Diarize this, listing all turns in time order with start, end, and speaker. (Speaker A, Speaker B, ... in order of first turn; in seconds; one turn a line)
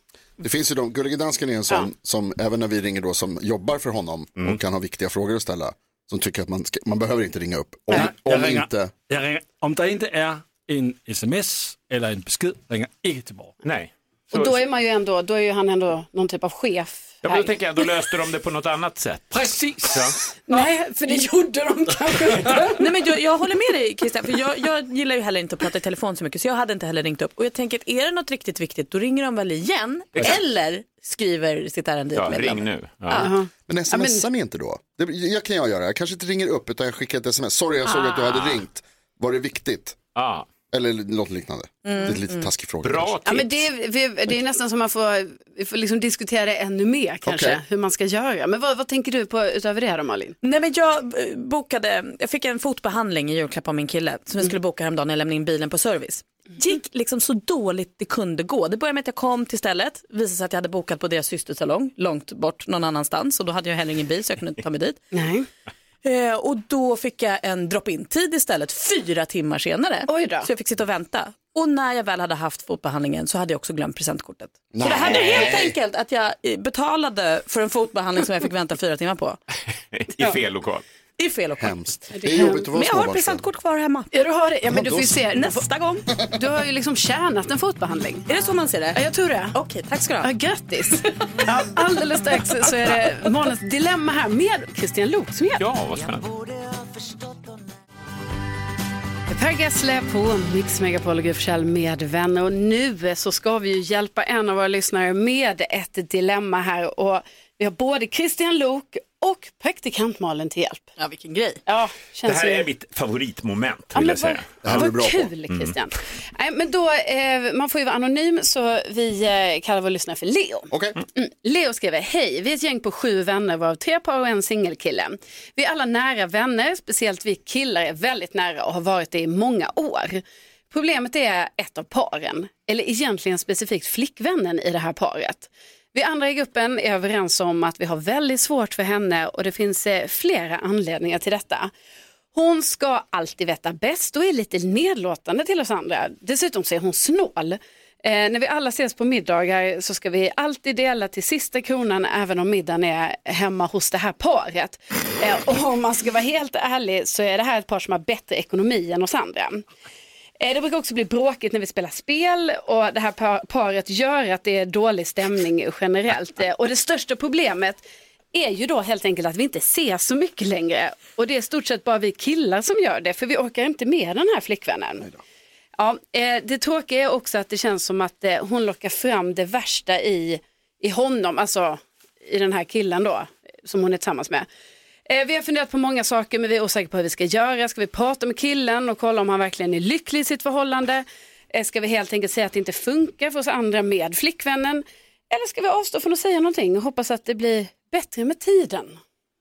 Speaker A: 0.4-8.9
Speaker B: 7.9-13.6
Speaker C: 13.6-14.6
Speaker D: 14.3-17.9
Speaker C: 17.2-20.2
Speaker B: 19.3-20.1
Speaker D: 20.5-22.8
Speaker E: 22.8-33.3
Speaker C: 32.1-33.3
Speaker D: 33.1-34.2
Speaker A: 33.7-40.0
Speaker C: 40.1-40.5
Speaker A: 40.7-43.2
Speaker E: 41.9-42.5
Speaker C: 42.8-43.6
Speaker D: 43.2-50.4
Speaker A: 47.3-47.6
Speaker E: 50.4-65.0
Speaker D: 65.1-65.5
Speaker E: 66.0-79.4
Speaker D: 70.1-70.5
Speaker A: 74.7-75.8
Speaker C: 79.9-80.8
Speaker E: 81.2-84.1
Speaker A: 81.6-83.5
Speaker D: 82.2-82.7
Speaker D: 84.1-85.7
Speaker A: 84.7-85.2
Speaker E: 85.3-86.0
Speaker D: 86.2-88.3
Speaker E: 88.3-89.0
Speaker D: 88.9-89.6
Speaker E: 89.5-90.3
Speaker D: 90.2-95.7
Speaker C: 95.6-96.4
Speaker D: 99.3-110.9
Speaker E: 111.0-111.6
Speaker D: 111.7-112.7
Speaker C: 112.2-114.8
Speaker D: 113.9-141.7
Speaker A: 114.6-115.3
Speaker C: 115.5-115.8
Speaker A: 120.7-121.0
Speaker D: 142.3-159.7
Speaker D: 160.4-175.1
Speaker D: 175.8-184.5
Speaker D: 185.1-199.0